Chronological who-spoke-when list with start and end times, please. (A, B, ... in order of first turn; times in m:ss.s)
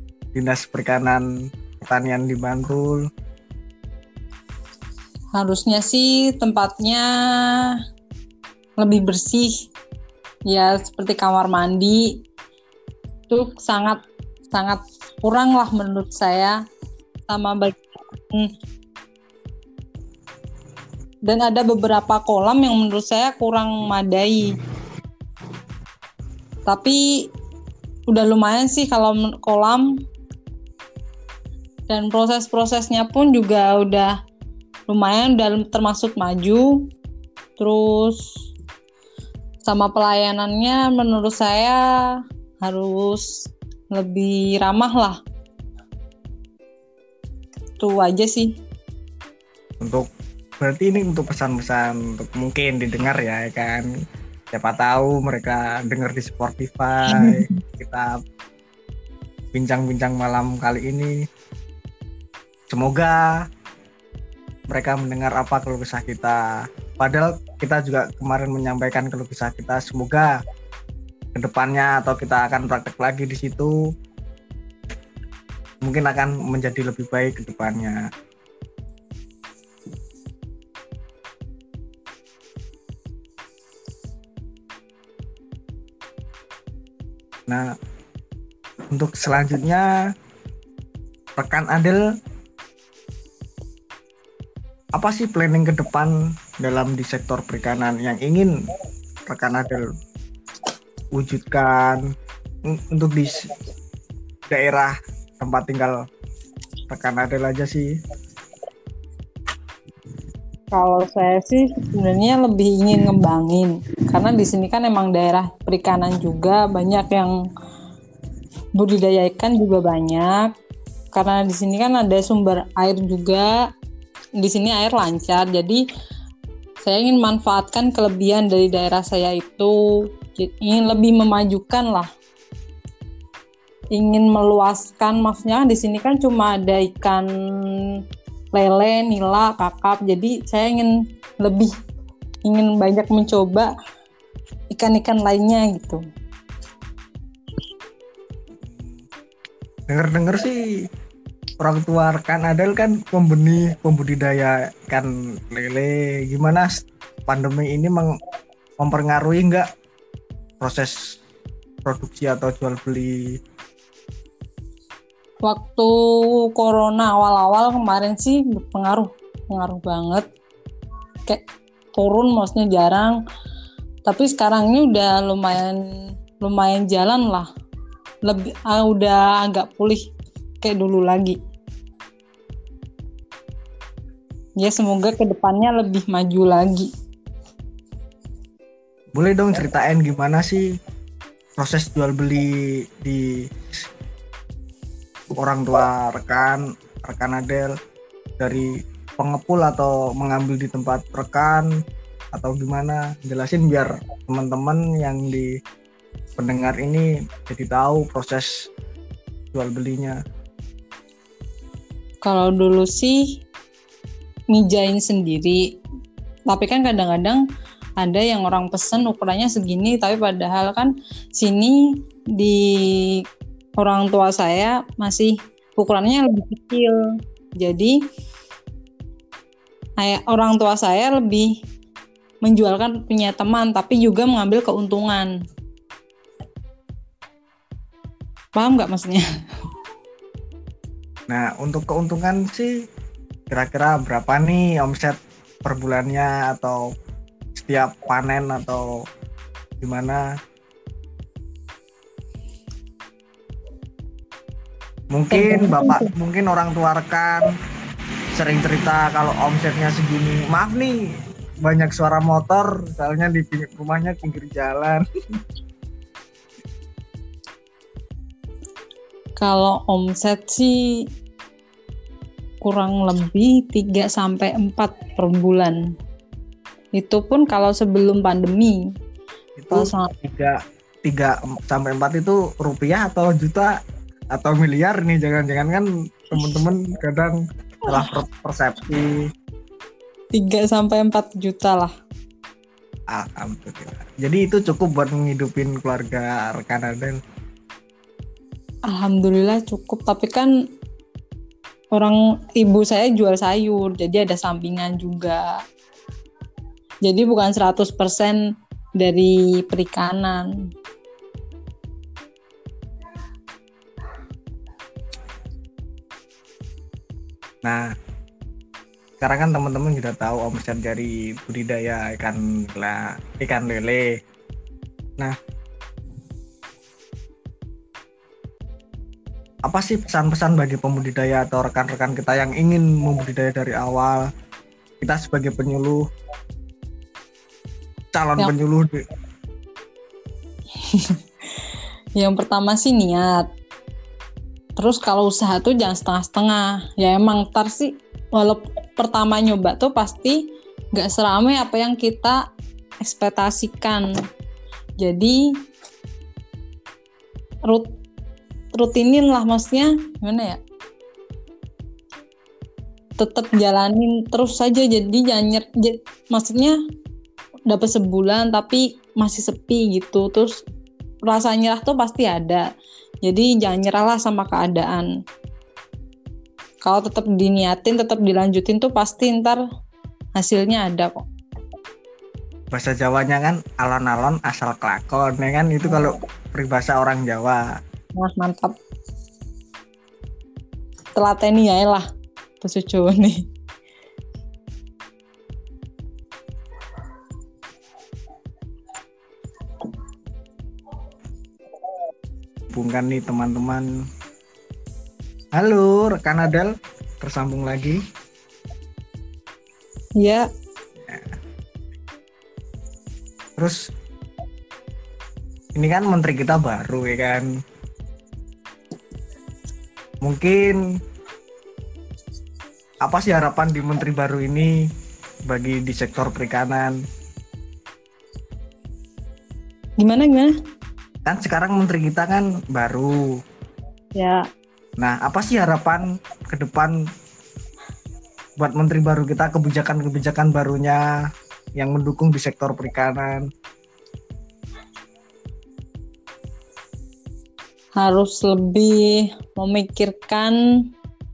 0:00.3-0:03.1 A
0:05.4-0:07.7 B
0:08.8-0:09.7 B
0:10.5-0:12.0 B
0:13.3-0:14.0 B
0:14.5-0:16.6 B
0:17.3-0:18.5 B
0:21.3-0:24.6 B
0:26.7-0:27.0 B
0:28.1-0:29.9 B
0:31.9-0:34.1 B
0:34.9-0:36.9 B
0:37.6-0:38.2 B
0:39.6-0:41.8 B
0:42.6-0:45.2 B
0:47.8-0:48.5 B
0:50.6-0:53.9 A
0:54.5-0:58.1 A
0:57.1-0:57.5 B
0:59.5-1:01.1 A
1:02.7-1:03.3 A
1:04.7-1:06.4 A
1:07.0-1:10.3 A
1:11.4-1:13.8 A
1:15.8-1:18.0 A
1:28.9-1:29.9 A
1:31.4-1:32.0 A
1:35.0-1:38.5 A
1:39.3-1:39.8 A
1:41.2-1:42.0 A
1:42.7-1:43.5 A
1:44.5-1:45.9 A
1:46.9-1:47.9 A
1:50.7-1:57.3 B
1:58.8-2:00.5 B
2:01.1-2:03.5 B
2:04.4-2:05.8 B
2:06.8-2:09.7 B
2:10.3-2:12.1 B
2:14.0-2:17.8 B
2:18.5-2:21.7 B
2:22.4-2:23.7 B
2:24.7-2:26.0 B
2:28.6-2:29.0 A
2:29.9-2:30.6 A
2:31.6-2:38.1 A
2:38.8-2:39.7 A
2:40.6-2:41.2 A
2:41.8-2:43.2 A
2:45.4-2:45.9 B
2:46.5-2:50.3 B
2:52.0-2:53.2 B
2:54.0-2:55.8 B
2:56.4-2:57.5 B
2:58.2-3:00.0 B
3:00.6-3:01.4 B
3:04.6-3:06.9 B
3:09.1-3:10.6 A
3:11.6-3:13.4 A
3:15.3-3:17.7 A
3:18.4-3:21.7 A
3:22.3-3:25.5 A
3:26.4-3:28.5 A
3:29.5-3:30.2 A
3:32.2-3:33.4 B
3:34.5-3:35.6 B
3:36.5-3:37.4 B
3:38.0-3:41.8 B
3:42.4-3:43.2 B
3:43.8-3:47.0 B
3:47.6-3:48.0 B
3:50.0-3:51.5 B
3:52.4-3:55.3 B
3:58.6-3:59.2 B
4:01.3-4:02.7 A
4:03.5-4:06.9 A
4:07.6-4:08.9 A
4:09.8-4:10.2 A
4:15.1-4:17.5 A
4:15.3-4:16.1 B
4:18.4-4:21.0 A
4:21.6-4:25.0 A
4:29.4-4:30.8 B
4:32.6-4:35.8 B
4:37.0-4:38.8 B
4:39.6-4:43.7 A
4:39.7-4:40.1 B
4:44.4-4:49.2 A
4:50.3-4:51.9 B
4:53.1-4:57.2 A
4:58.9-5:00.5 B
5:01.9-5:05.5 B
5:07.0-5:08.4 B
5:09.0-5:10.5 B
5:19.2-5:24.1 A
5:29.7-5:34.3 A
5:35.0-5:36.0 A
5:38.1-5:39.0 A
5:42.2-5:43.5 B
5:44.8-5:50.4 B
5:51.0-5:52.4 B
5:53.0-5:54.1 B
5:55.0-5:55.4 B
5:58.8-6:00.6 B
6:03.2-6:06.8 B
6:07.7-6:10.6 B
6:11.3-6:12.6 B
6:13.2-6:15.1 B
6:16.8-6:19.6 B
6:20.4-6:21.2 B
6:22.7-6:27.6 A
6:28.2-6:28.8 B
6:31.2-6:32.0 B
6:32.6-6:33.4 B
6:42.7-6:43.9 A
6:45.6-6:46.7 A
6:47.2-6:48.0 A
6:50.2-6:50.5 B
6:51.0-6:51.3 A
6:55.8-6:57.5 A
7:00.2-7:00.8 A
7:03.0-7:04.7 A
7:05.5-7:07.0 A
7:10.0-7:10.5 B
7:11.3-7:13.2 A
7:14.2-7:14.4 B
7:15.0-7:16.9 A
7:18.6-7:21.0 A
7:21.8-7:23.5 A
7:28.0-7:30.6 B